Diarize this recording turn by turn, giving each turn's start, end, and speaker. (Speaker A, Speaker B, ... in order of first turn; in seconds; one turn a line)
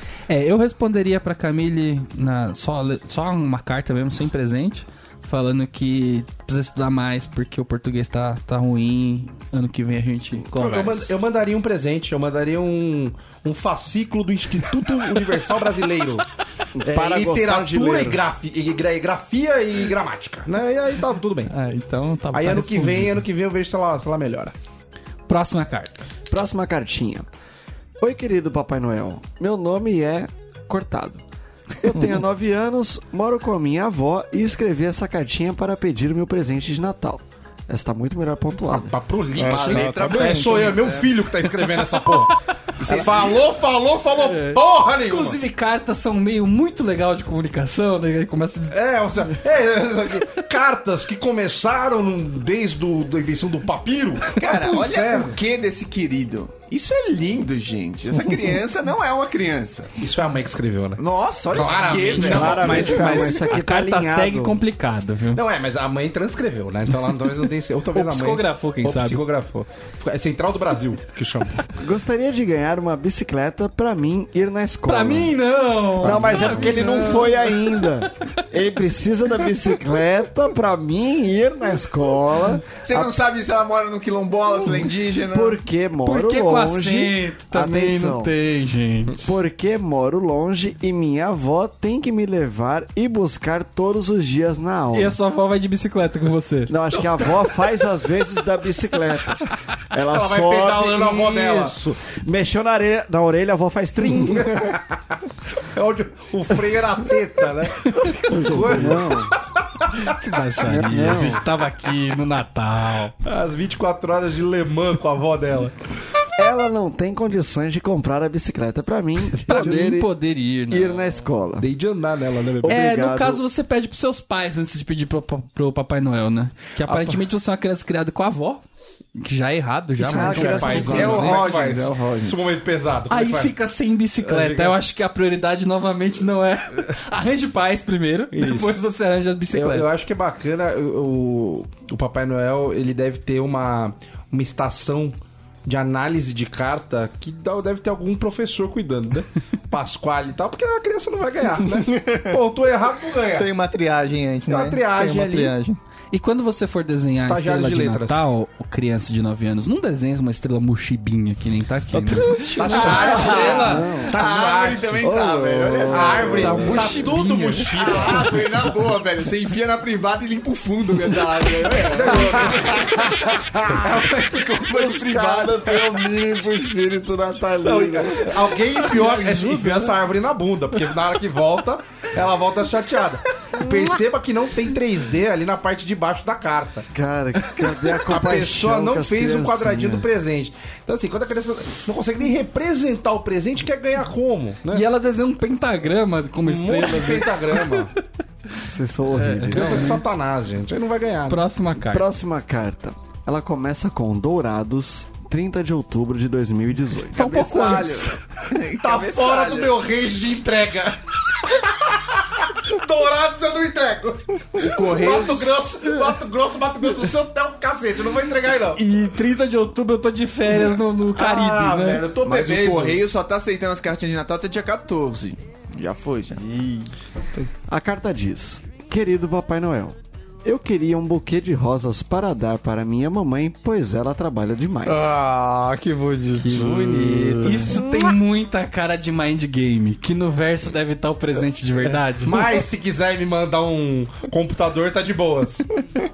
Speaker A: 0.3-11.2
Speaker B: 10.5-16.2
Speaker C: 16.8-18.2
Speaker B: 16.9-21.5
Speaker A: 21.5-23.2
Speaker B: 22.3-24.5
Speaker A: 25.3-26.0
Speaker C: 26.3-27.3
Speaker C: 28.0-31.2
Speaker C: 31.8-38.9
Speaker B: 38.7-45.4
Speaker D: 39.3-40.9
Speaker E: 39.4-41.5
Speaker A: 44.2-48.8
Speaker B: 48.7-55.4
Speaker E: 54.3-60.0
Speaker B: 60.0-63.4
Speaker E: 61.0-63.0
Speaker A: 62.1-65.4
Speaker C: 62.1-64.6
Speaker B: 65.3-71.6
Speaker A: 67.9-69.2
Speaker C: 71.8-75.4
Speaker A: 74.8-78.0
Speaker C: 76.0-83.1
Speaker B: 76.1-76.4
Speaker E: 82.8-85.6
Speaker C: 85.3-88.3
Speaker A: 86.0-89.3
Speaker C: 89.2-95.2
Speaker A: 94.9-96.7
Speaker C: 96.7-104.8
Speaker B: 100.1-101.8
Speaker B: 104.5-104.8
Speaker B: 105.7-110.2
Speaker C: 108.1-109.3
Speaker A: 110.0-113.1
Speaker C: 110.6-111.4
Speaker B: 113.2-115.8
Speaker C: 116.3-120.1
Speaker A: 119.4-121.0
Speaker B: 119.5-119.9
Speaker C: 120.7-121.7
Speaker B: 121.6-122.8
Speaker C: 122.6-123.4
Speaker A: 122.6-128.6
Speaker B: 126.8-127.2
Speaker A: 129.1-131.3
Speaker C: 130.0-131.5
Speaker B: 130.1-133.5
Speaker E: 130.7-132.4
Speaker A: 133.1-139.9
Speaker C: 134.3-134.7
Speaker B: 138.3-138.8
Speaker B: 139.5-145.1
Speaker B: 145.7-153.5
Speaker D: 151.8-152.3
Speaker D: 153.3-155.8
Speaker B: 154.5-155.6
Speaker A: 156.1-163.9
Speaker B: 157.2-158.3
Speaker D: 161.9-162.7
Speaker B: 162.5-165.1
Speaker E: 162.6-166.6
Speaker C: 162.9-164.2
Speaker C: 165.0-167.0
Speaker B: 165.8-168.3
Speaker A: 166.3-167.8
Speaker E: 167.8-173.1
Speaker B: 171.9-172.9
Speaker C: 173.1-173.5
Speaker E: 173.6-176.1
Speaker C: 174.9-178.3
Speaker B: 177.6-186.9
Speaker C: 186.9-190.1
Speaker B: 188.1-194.8
Speaker A: 194.7-197.9
Speaker B: 196.4-197.9
Speaker C: 198.6-199.9
Speaker B: 199.5-201.4
Speaker A: 199.5-200.0
Speaker A: 201.3-202.1
Speaker C: 201.9-207.3
Speaker A: 207.1-208.2
Speaker E: 207.1-209.8
Speaker B: 208.8-218.8
Speaker E: 214.6-215.6
Speaker A: 218.7-222.0
Speaker B: 220.5-223.0
Speaker E: 222.2-226.4
Speaker D: 226.4-226.9
Speaker C: 227.7-235.2
Speaker D: 234.8-237.8
Speaker A: 236.4-242.4
Speaker B: 242.2-245.7